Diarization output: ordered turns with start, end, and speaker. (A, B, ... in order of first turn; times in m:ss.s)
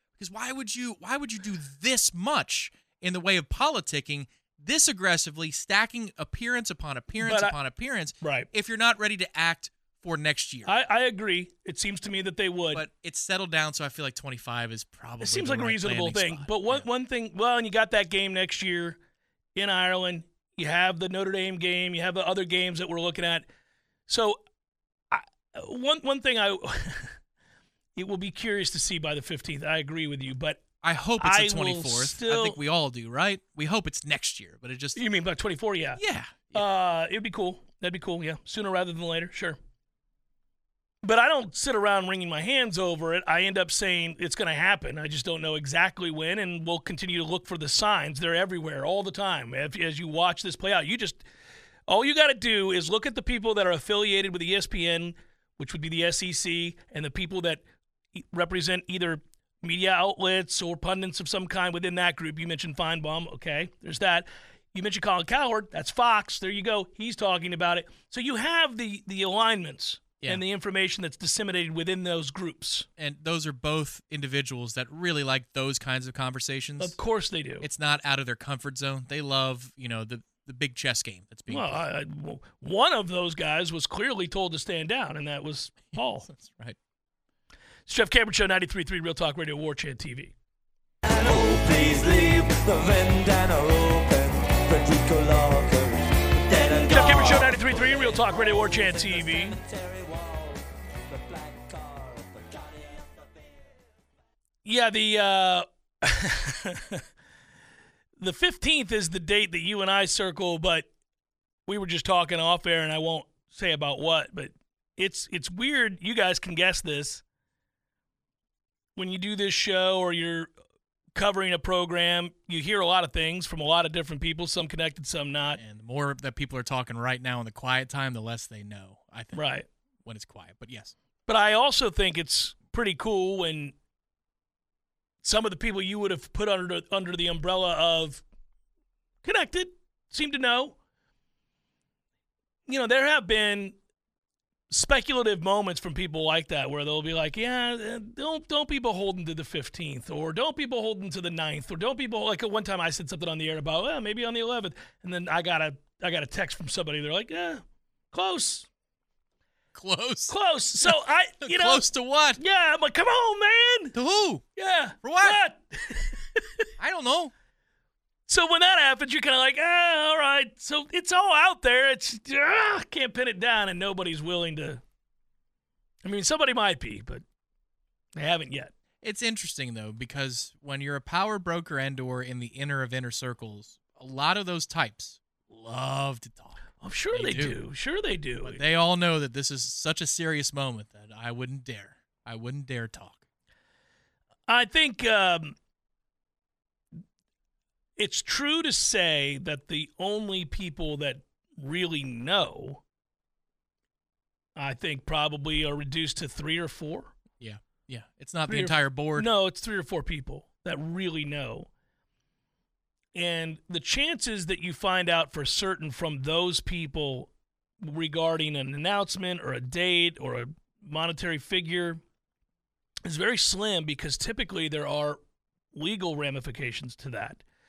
0:00.2-0:10.7 A
0:07.2-0:07.6 B
0:08.2-0:08.5 B
0:10.6-0:12.8 B
0:12.7-0:16.8 A
0:15.2-0:19.0 B
0:19.5-0:23.4 B
0:24.1-0:24.4 B
0:25.1-0:27.1 B
0:28.0-0:32.6 B
0:30.8-0:35.0 A
0:35.0-0:36.0 B
0:36.0-0:36.6 A
0:36.5-0:39.6 B
0:41.0-0:51.2 B
0:51.9-0:57.6 B
0:58.2-1:12.9 B
1:13.0-1:17.0 A
1:16.8-1:17.6 B
1:17.6-1:21.8 A
1:21.5-1:26.3 B
1:25.9-1:26.8 A
1:27.9-1:30.3 B
1:31.0-1:43.6 C
1:36.5-1:39.6 B
1:44.6-1:47.0 B
1:48.2-1:50.9 B
1:51.7-1:57.2 B
1:59.0-2:00.5 B
2:01.1-2:05.6 B
2:05.6-2:09.4 A
2:09.3-2:09.7 B
2:10.0-2:10.9 A
2:11.3-2:13.7 B
2:15.2-2:18.2 B
2:19.2-2:20.8 B
2:22.7-2:23.7 B
2:24.7-2:38.7 B
2:39.7-2:42.4 A
2:40.3-2:44.0 B
2:43.9-2:44.4 A
2:44.6-2:46.7 B
2:45.0-2:45.4 A
2:46.8-2:47.3 A
2:48.3-2:54.8 B
2:56.0-2:57.2 B
2:58.1-2:58.7 B
2:59.0-3:06.6 A
3:06.8-3:08.6 B
3:07.1-3:07.6 A
3:08.4-3:13.2 A
3:14.5-3:15.5 B
3:18.0-3:22.8 B
3:24.6-3:27.1 B
3:27.4-3:29.3 A
3:28.5-3:31.7 B
3:33.1-3:42.0 B
3:43.0-3:45.2 B
3:45.7-3:47.4 B